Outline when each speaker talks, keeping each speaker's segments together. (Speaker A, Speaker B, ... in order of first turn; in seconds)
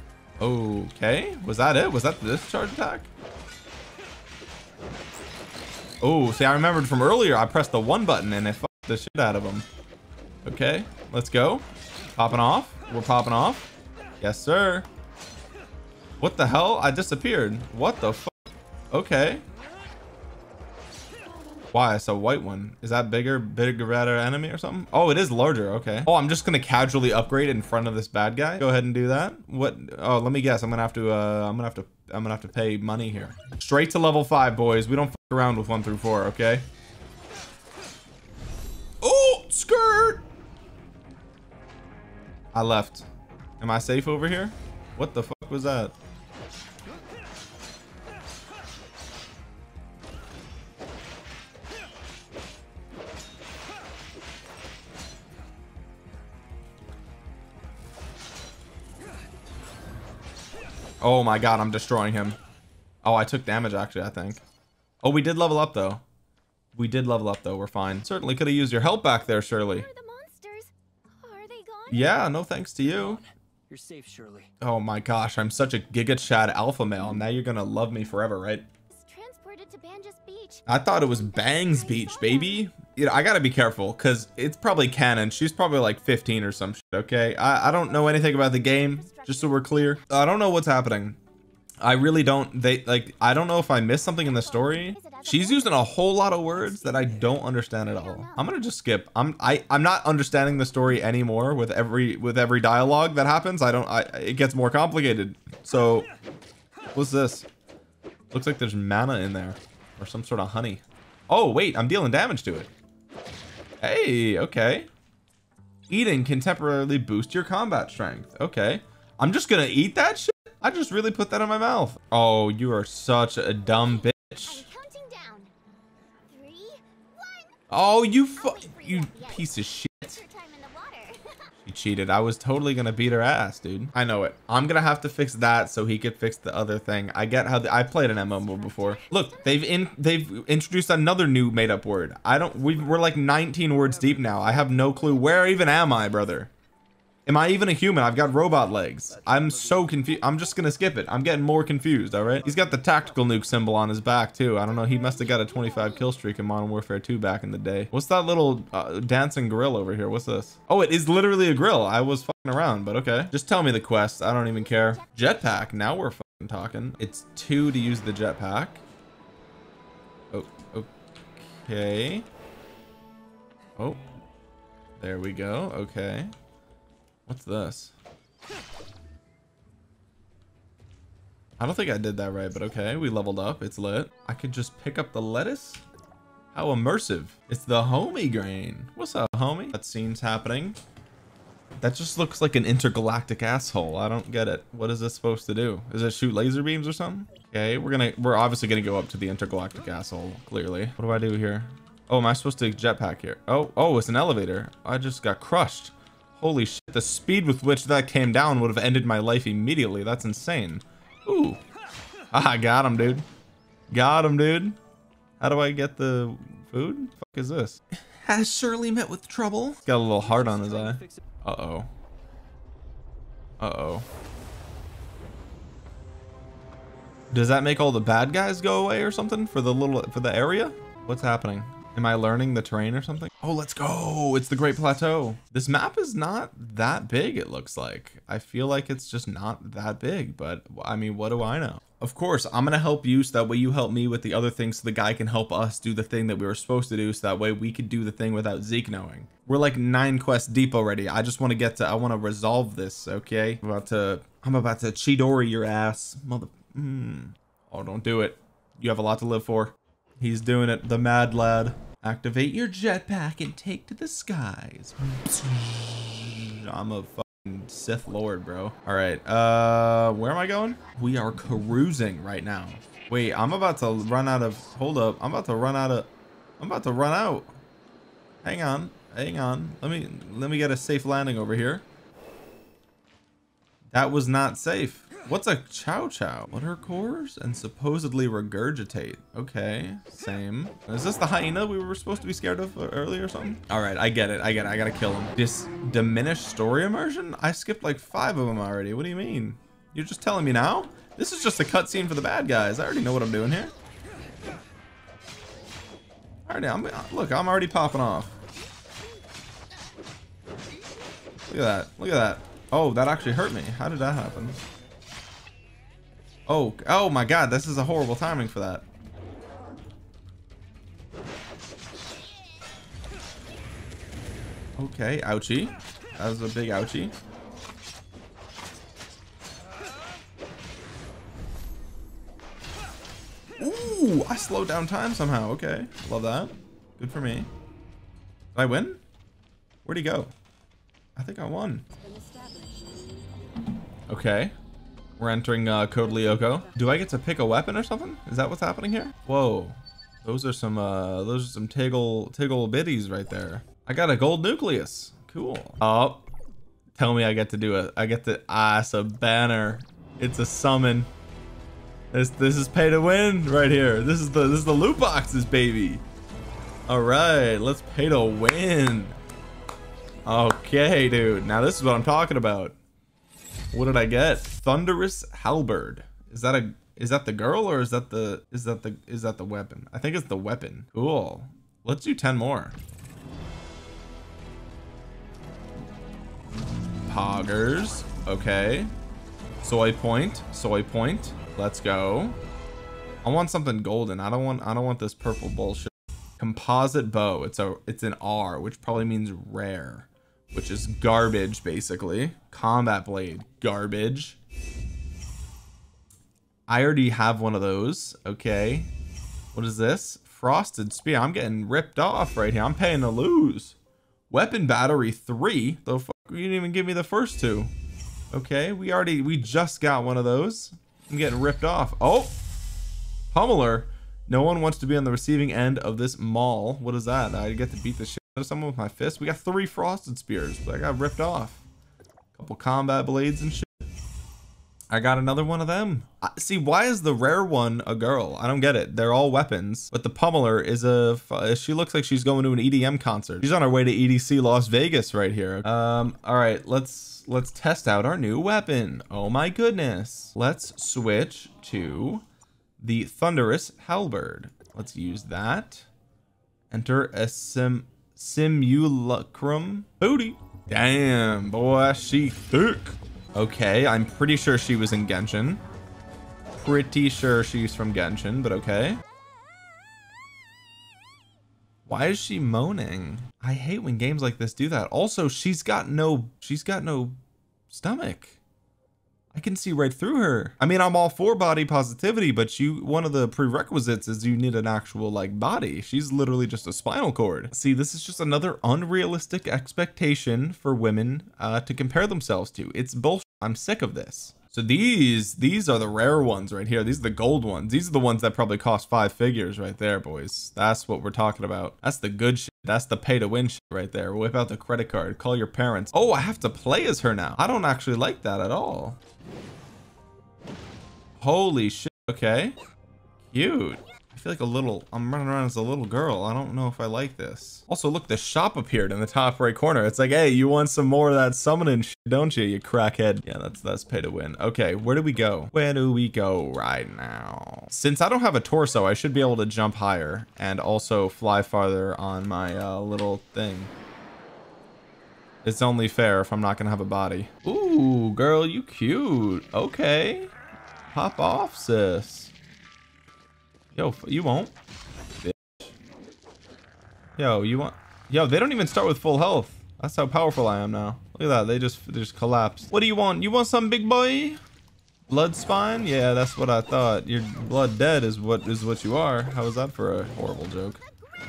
Speaker A: 0.4-3.1, 6.0-9.7, 10.4-14.9, 16.2-18.4, 18.9-19.4, 21.7-36.6, 39.0-40.2, 42.5-43.1, 43.6-45.9, 61.0-62.4, 63.0-64.4, 65.0-66.0, 66.7-69.9, 71.9-73.2, 74.6-78.7, 80.7-91.2, 91.8-106.1, 106.9-107.5, 108.3-112.7, 113.8-114.9, 115.9-124.7, 127.7-130.2, 131.6-146.5, 147.2-168.8, 170.3-172.2, 175.0-176.3, 177.3-177.9, 181.6-185.8, 186.5-190.8, 191.8-211.6, 212.3-213.2, 213.9-214.8, 215.4-221.9, 223.6-224.0, 227.3-277.5, 278.4-281.8, 283.9-303.7, 306.5-308.3, 311.5-314.6, 316.5-318.9, 324.8-327.1, 333.6-337.5, 338.5-339.0, 339.8-340.3, 341.1-341.8, 344.1-344.5, 345.2-356.3, 357.0-361.1, 362.1-366.0, 366.9-369.1, 370.2-372.8, 373.7-382.7, 387.1-388.9, 389.6-392.4, 393.2-404.4, 406.7-408.9, 409.5-413.8, 414.3-417.7, 418.3-422.3, 423.3-431.6, 432.3-433.8, 434.9-452.2, 452.8-455.9, 456.7-465.6, 466.6-469.0, 471.9-477.2, 477.7-478.4, 479.3-509.0, 511.2-512.5, 513.3-533.7, 535.4-540.3, 540.9-542.3, 543.7-544.5, 545.2-545.7, 547.2-554.4, 555.1-560.8
Speaker B: 21.2-21.7, 69.5-72.2, 78.9-82.7, 87.8-90.4, 94.1-98.6, 123.7-125.5, 126.3-127.5, 128.3-131.2, 137.6-139.6, 144.8-146.2, 150.2-150.6, 154.7-156.2, 164.5-165.8
Speaker C: 72.9-74.5, 143.9-144.7, 149.2-150.0, 152.4-153.2, 219.8-221.2, 341.9-343.1, 346.0-346.7